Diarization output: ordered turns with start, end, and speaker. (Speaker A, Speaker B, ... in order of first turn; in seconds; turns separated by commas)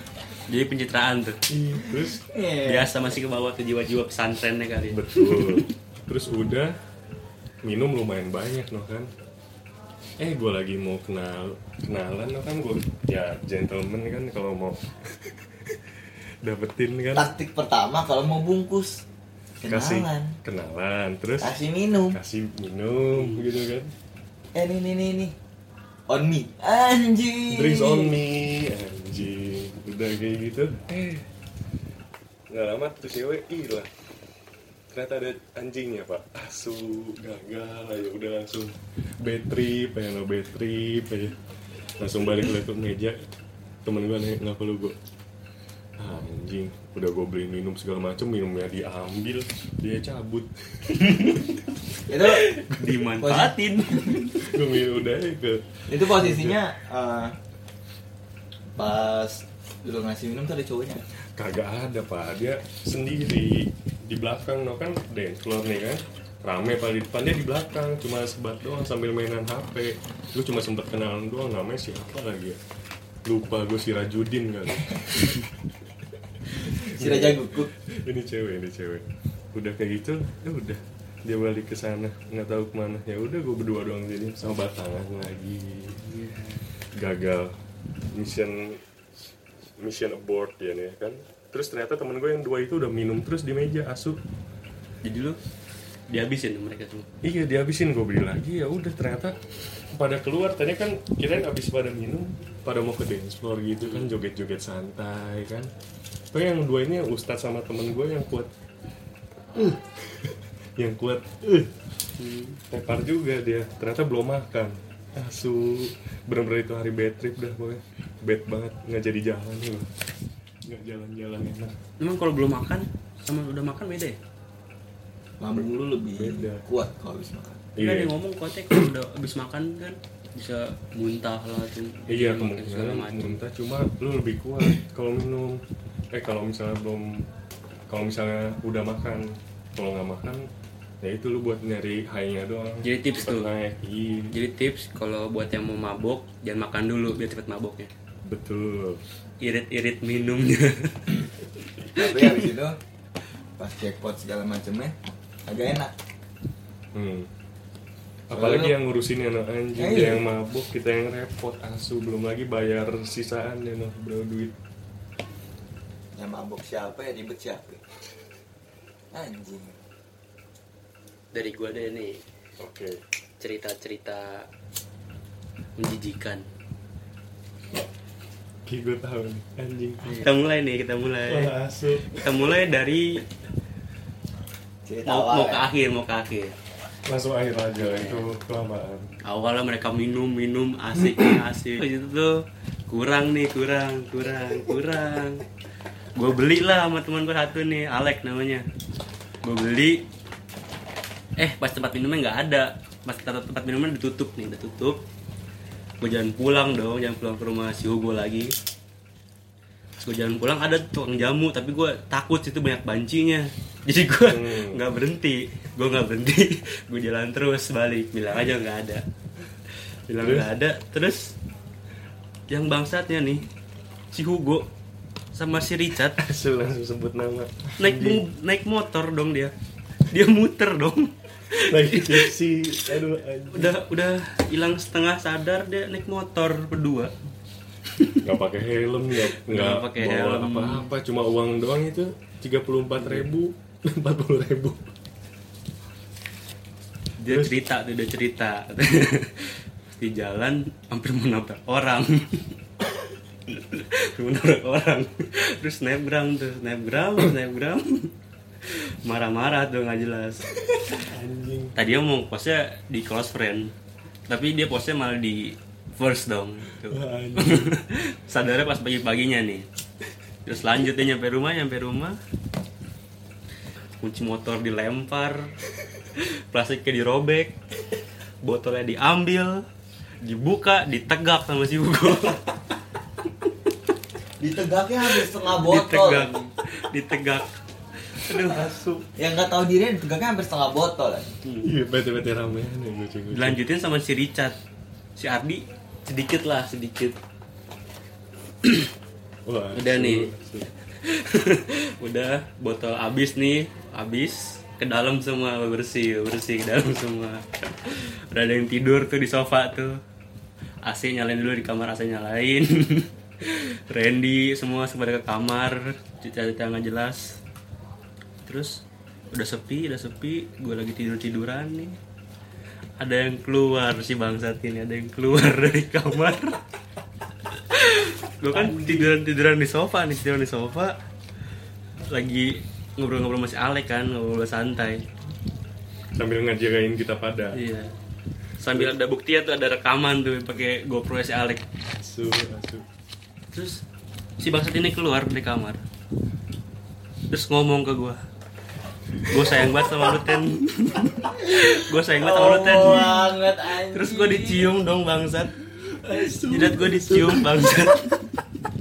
Speaker A: 0.5-1.4, Speaker B: 1.5-2.3, Speaker C: 1.9-3.0, Speaker A: 2.6-5.7, Speaker B: 4.9-6.8, Speaker B: 7.6-9.1, Speaker B: 10.2-17.3, Speaker C: 17.1-19.0, Speaker C: 19.6-20.4, Speaker B: 19.7-21.6, Speaker C: 21.4-22.2, Speaker B: 22.1-23.9, Speaker C: 24.5-25.3, Speaker C: 26.1-28.1, Speaker B: 27.5-31.3, Speaker B: 32.5-33.9, Speaker B: 34.9-41.4, Speaker B: 42.0-43.2, Speaker B: 43.8-45.0, Speaker B: 46.0-51.6, Speaker A: 51.0-51.5, Speaker C: 52.1-52.5, Speaker A: 52.2-54.4, Speaker B: 52.7-53.0, Speaker C: 53.2-54.2, Speaker B: 54.3-56.6, Speaker C: 55.9-57.4, Speaker C: 58.8-61.0, Speaker B: 61.4-72.6, Speaker B: 73.2-75.5, Speaker C: 76.5-77.7, Speaker B: 76.8-86.0, Speaker A: 86.0-86.6, Speaker B: 86.9-87.6, Speaker B: 88.1-88.8, Speaker B: 89.8-94.2, Speaker A: 95.0-95.4, Speaker A: 96.1-97.1, Speaker B: 97.2-99.4, Speaker B: 99.9-105.7, Speaker A: 103.8-104.1, Speaker B: 106.3-108.5, Speaker B: 109.5-111.7, Speaker A: 112.2-112.6, Speaker B: 112.7-119.9, Speaker B: 120.6-121.7, Speaker A: 122.0-124.2, Speaker C: 125.4-127.7, Speaker B: 125.5-126.6, Speaker B: 127.8-128.1, Speaker A: 127.8-133.4, Speaker B: 132.1-137.3, Speaker B: 137.9-140.5, Speaker B: 141.0-144.4, Speaker A: 142.8-143.5, Speaker A: 144.3-147.9, Speaker B: 148.2-149.0, Speaker A: 149.4-151.2, Speaker A: 151.8-152.4, Speaker C: 151.9-152.8, Speaker C: 153.6-154.9, Speaker C: 155.4-155.9, Speaker B: 156.9-157.3, Speaker B: 158.3-164.5, Speaker C: 158.3-158.7, Speaker C: 159.8-160.2, Speaker C: 166.2-167.8, Speaker C: 169.1-169.8, Speaker A: 171.3-172.2, Speaker B: 172.6-173.0, Speaker A: 173.4-174.5, Speaker A: 175.8-176.4, Speaker B: 178.7-180.3, Speaker A: 180.0-183.2, Speaker B: 181.2-182.3, Speaker C: 184.8-185.7, Speaker A: 185.1-186.6, Speaker B: 187.0-189.1, Speaker A: 187.8-188.2, Speaker A: 189.2-195.4, Speaker B: 191.0-191.3, Speaker A: 196.1-198.6, Speaker A: 199.4-200.1, Speaker A: 201.4-205.0, Speaker A: 206.0-208.5, Speaker A: 210.0-219.0, Speaker B: 214.3-214.8, Speaker A: 220.1-221.3, Speaker B: 220.2-220.5, Speaker A: 222.5-223.5, Speaker A: 224.1-224.7, Speaker A: 225.3-226.2, Speaker B: 226.2-228.2, Speaker A: 227.8-229.5, Speaker A: 230.1-232.3, Speaker B: 231.5-233.8, Speaker A: 233.5-237.1, Speaker B: 238.2-244.9, Speaker A: 239.2-240.9, Speaker A: 243.0-243.3, Speaker A: 247.2-252.6, Speaker B: 247.2-247.6, Speaker A: 253.5-260.5, Speaker B: 260.8-261.7, Speaker A: 261.8-263.7, Speaker A: 264.3-269.7, Speaker B: 266.8-267.8, Speaker A: 270.4-272.2, Speaker A: 274.0-275.5, Speaker A: 276.1-277.6, Speaker A: 278.4-279.6, Speaker A: 280.2-282.4, Speaker C: 284.4-286.5, Speaker A: 285.4-287.5, Speaker A: 288.1-289.0, Speaker C: 289.1-291.4, Speaker B: 291.6-293.6, Speaker A: 293.3-294.6, Speaker A: 295.1-297.2, Speaker A: 298.6-298.9, Speaker B: 299.4-300.7, Speaker A: 299.7-300.3, Speaker A: 301.0-310.0, Speaker A: 310.8-317.4, Speaker A: 318.4-322.0, Speaker A: 323.0-326.6, Speaker A: 327.5-330.9, Speaker B: 328.5-329.2, Speaker A: 332.1-335.1, Speaker B: 336.1-337.6, Speaker A: 337.5-337.9, Speaker A: 338.6-341.6, Speaker B: 338.7-338.9, Speaker B: 341.9-342.9, Speaker A: 343.5-343.8, Speaker A: 344.4-345.8, Speaker A: 347.3-348.2, Speaker A: 349.2-355.6, Speaker B: 349.3-349.9, Speaker C: 352.1-354.7, Speaker B: 352.7-353.2, Speaker B: 355.7-358.1, Speaker A: 356.4-358.4